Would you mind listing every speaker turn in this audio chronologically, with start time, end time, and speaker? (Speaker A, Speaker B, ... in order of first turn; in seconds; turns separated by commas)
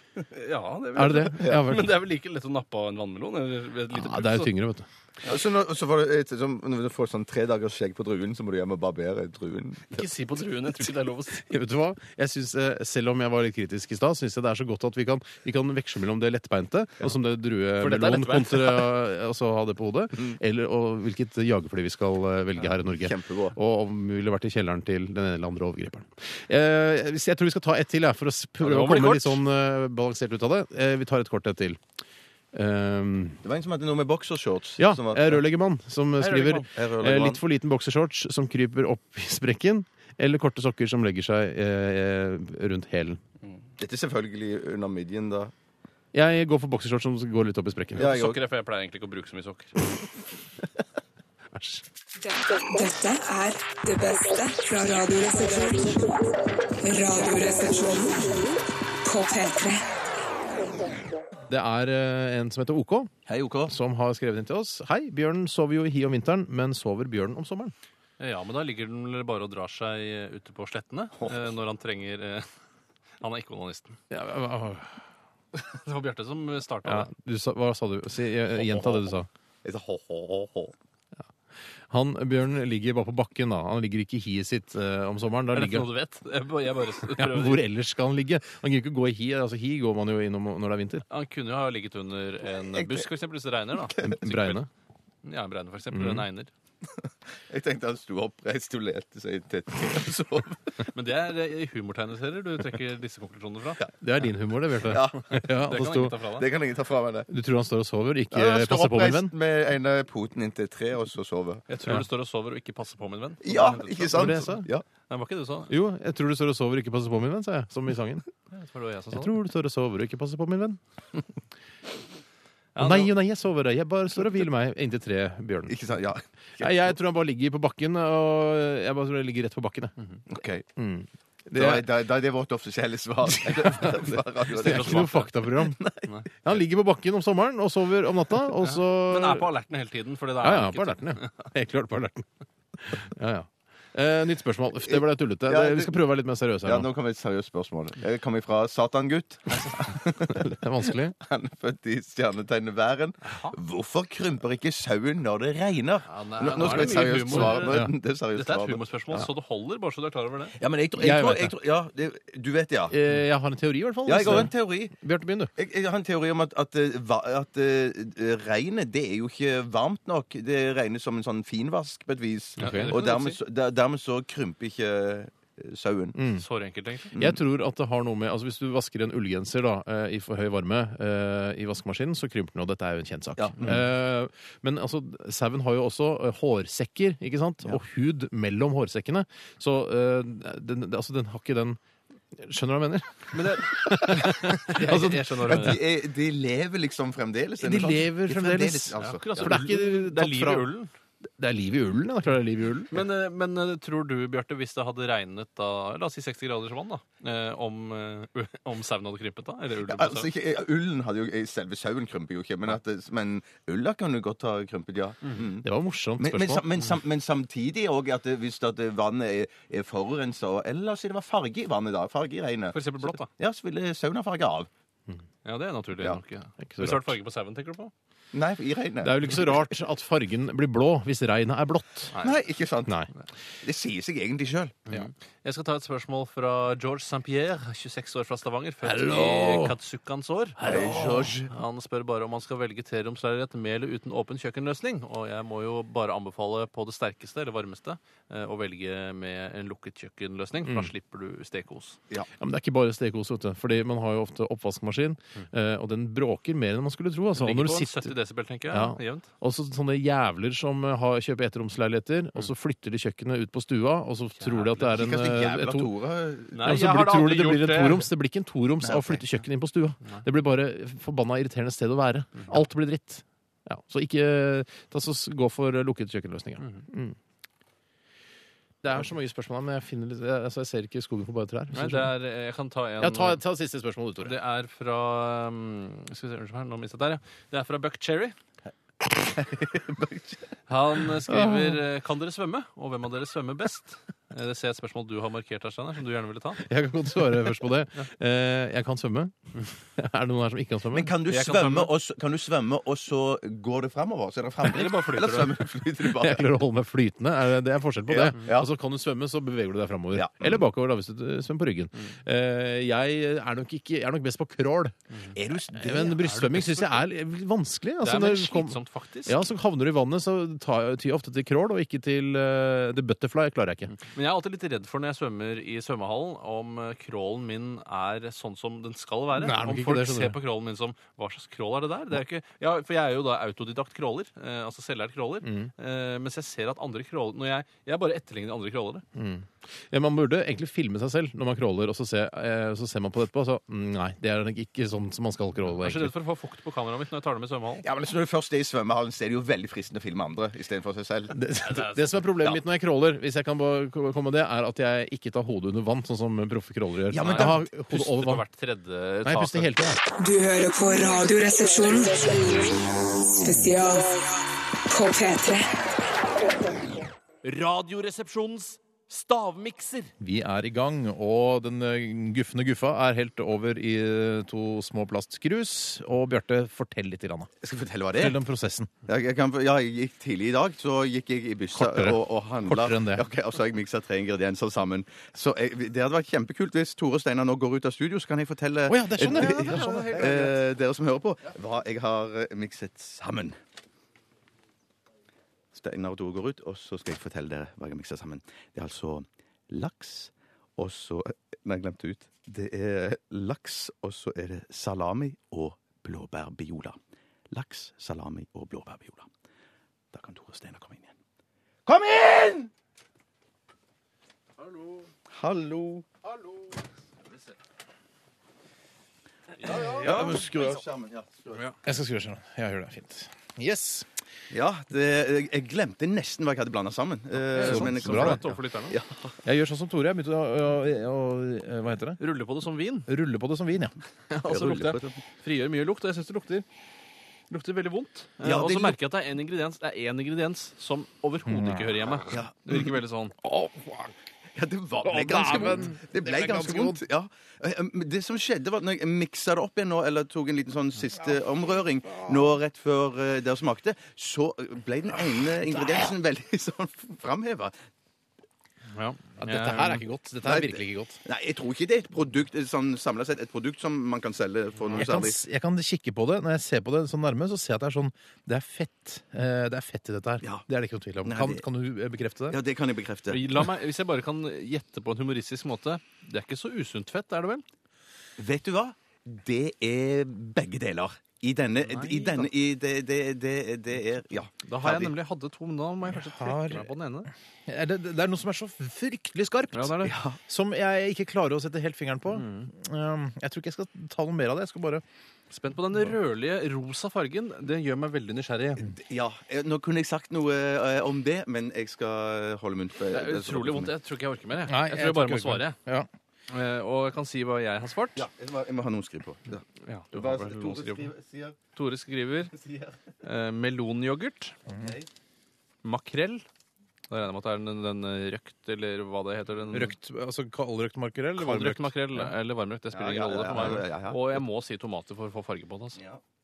Speaker A: 0.2-4.5, Speaker B: 0.9-1.9, Speaker B: 3.9-4.9, Speaker C: 5.2-10.1, Speaker A: 9.9-11.5, Speaker B: 11.4-31.8, Speaker A: 17.8-18.9, Speaker C: 22.9-23.6, Speaker A: 28.6-29.4, Speaker B: 32.5-33.4, Speaker C: 33.4-35.4, Speaker B: 34.8-43.2, Speaker A: 36.2-36.7, Speaker C: 36.7-37.4, Speaker C: 43.8-45.5, Speaker B: 46.1-48.1, Speaker C: 48.0-48.4, Speaker A: 48.0-49.8, Speaker B: 51.5-51.8, Speaker D: 52.3-56.1, Speaker D: 56.8-58.5, Speaker D: 59.0-59.8, Speaker B: 61.5-63.1, Speaker C: 63.2-63.7, Speaker B: 63.7-67.7, Speaker A: 68.2-72.5, Speaker A: 73.2-74.0, Speaker B: 74.1-75.0, Speaker A: 75.5-77.1, Speaker B: 76.8-79.3, Speaker C: 78.7-79.0, Speaker C: 79.6-80.7, Speaker B: 81.9-85.9, Speaker A: 85.5-87.6, Speaker B: 87.1-91.0, Speaker A: 91.1-94.6, Speaker C: 92.7-93.0, Speaker B: 94.0-94.7, Speaker A: 95.2-96.5, Speaker B: 95.9-96.2, Speaker C: 97.0-100.8, Speaker A: 100.9-103.9, Speaker B: 104.0-106.2, Speaker C: 104.8-105.4, Speaker A: 105.4-106.5, Speaker C: 106.3-107.3, Speaker B: 107.3-109.3, Speaker C: 108.3-111.6, Speaker A: 111.7-115.7, Speaker C: 113.4-114.8, Speaker B: 114.1-114.7, Speaker B: 115.7-118.2, Speaker A: 118.5-119.3, Speaker B: 119.1-120.8, Speaker A: 122.7-123.1, Speaker B: 122.8-125.8, Speaker C: 125.7-126.9, Speaker B: 126.6-129.9, Speaker C: 130.3-130.7, Speaker B: 130.8-131.9, Speaker C: 131.5-136.0, Speaker B: 133.3-135.8, Speaker A: 134.6-135.3, Speaker B: 136.4-139.5, Speaker A: 138.6-141.5, Speaker B: 140.4-142.2, Speaker B: 142.8-146.9, Speaker C: 144.9-146.0, Speaker C: 146.6-150.5, Speaker B: 150.2-151.1, Speaker C: 151.2-159.2, Speaker A: 153.2-153.5, Speaker A: 156.1-157.8, Speaker B: 156.5-157.9, Speaker A: 158.3-160.6, Speaker C: 160.6-163.0, Speaker B: 161.0-161.5, Speaker B: 162.9-165.5, Speaker C: 164.1-164.9, Speaker C: 165.6-176.2, Speaker A: 172.6-173.4, Speaker B: 172.6-172.9, Speaker B: 176.2-176.4, Speaker A: 176.3-177.1, Speaker C: 177.1-177.4, Speaker B: 177.2-191.8, Speaker C: 183.4-183.8, Speaker B: 192.3-195.8, Speaker A: 193.3-195.8, Speaker C: 195.4-199.6, Speaker B: 197.6-200.7, Speaker A: 199.0-200.9, Speaker B: 201.4-203.0, Speaker A: 202.9-210.3, Speaker C: 209.8-215.7, Speaker B: 215.6-216.7, Speaker C: 216.2-224.7, Speaker A: 222.7-223.3, Speaker A: 225.4-227.9, Speaker B: 226.6-227.2, Speaker C: 228.3-229.5, Speaker B: 229.0-232.1, Speaker A: 232.1-232.4, Speaker C: 232.2-232.9, Speaker C: 233.6-234.8, Speaker A: 234.9-240.7, Speaker B: 238.8-239.7, Speaker B: 240.6-241.3, Speaker C: 240.6-241.5, Speaker A: 241.4-252.0, Speaker B: 250.6-250.9, Speaker B: 252.4-258.1, Speaker A: 257.4-259.3, Speaker B: 258.7-265.9, Speaker A: 264.4-264.9, Speaker C: 264.8-266.8, Speaker A: 266.5-268.1, Speaker B: 266.6-277.2, Speaker C: 268.8-269.2, Speaker B: 278.8-282.1, Speaker A: 281.7-283.4, Speaker B: 283.0-284.3, Speaker A: 284.2-288.4, Speaker C: 289.0-290.4, Speaker A: 290.7-296.6, Speaker B: 291.3-291.8, Speaker B: 296.6-301.1, Speaker C: 300.9-306.5, Speaker A: 301.3-301.9, Speaker A: 304.7-305.5, Speaker B: 306.0-315.0, Speaker C: 308.1-308.7, Speaker C: 310.1-310.6, Speaker C: 315.3-316.7, Speaker B: 315.7-324.0, Speaker A: 316.2-316.7, Speaker A: 318.0-319.4, Speaker A: 324.0-339.0, Speaker B: 329.3-330.4, Speaker B: 335.4-335.7, Speaker B: 339.1-346.1, Speaker A: 345.8-347.9, Speaker C: 347.8-351.3, Speaker B: 351.3-358.4, Speaker A: 351.6-352.3, Speaker C: 357.1-357.6, Speaker A: 357.2-359.9, Speaker B: 359.2-360.0, Speaker D: 360.2-362.8, Speaker D: 363.4-364.3, Speaker D: 364.9-365.7, Speaker A: 367.4-370.1, Speaker B: 370.2-377.5, Speaker C: 377.6-378.4, Speaker B: 378.1-378.9, Speaker C: 379.1-393.6, Speaker B: 381.7-383.2, Speaker B: 388.9-390.4, Speaker A: 389.2-390.5, Speaker C: 395.7-407.0, Speaker C: 407.5-409.3, Speaker C: 410.1-411.1, Speaker C: 411.9-412.7, Speaker A: 414.7-415.0, Speaker C: 415.3-416.1, Speaker A: 419.6-420.0, Speaker C: 419.6-421.6, Speaker B: 419.6-420.8, Speaker B: 421.8-424.1, Speaker C: 424.5-429.4, Speaker A: 427.5-429.0, Speaker B: 427.6-428.5, Speaker B: 429.4-432.2, Speaker A: 432.2-433.1, Speaker B: 433.1-433.9, Speaker A: 434.3-436.6, Speaker C: 434.4-435.2, Speaker A: 437.5-443.3, Speaker C: 438.4-439.0, Speaker B: 441.5-441.9, Speaker C: 442.3-442.9, Speaker B: 443.4-444.1, Speaker C: 444.6-457.7, Speaker B: 445.0-447.0, Speaker A: 458.9-460.0, Speaker B: 459.4-461.2, Speaker C: 460.4-465.4, Speaker B: 464.9-472.6, Speaker C: 471.2-471.6, Speaker C: 472.5-473.4, Speaker A: 473.3-477.6, Speaker C: 478.4-485.1, Speaker A: 481.9-482.5, Speaker A: 484.6-487.3, Speaker B: 486.1-486.9, Speaker B: 487.6-495.0, Speaker A: 489.7-490.1, Speaker C: 490.0-490.4, Speaker A: 492.3-492.7, Speaker A: 495.5-498.9, Speaker C: 498.8-503.9, Speaker A: 503.1-505.8, Speaker B: 504.7-506.1, Speaker A: 506.5-508.3, Speaker C: 508.1-511.6, Speaker A: 509.8-511.1, Speaker A: 511.7-512.5, Speaker C: 512.5-512.9, Speaker A: 513.2-514.5, Speaker C: 514.7-515.1, Speaker A: 515.8-516.5, Speaker A: 517.1-519.9, Speaker B: 519.7-522.3, Speaker A: 521.4-526.0, Speaker C: 522.9-524.4, Speaker B: 523.5-523.8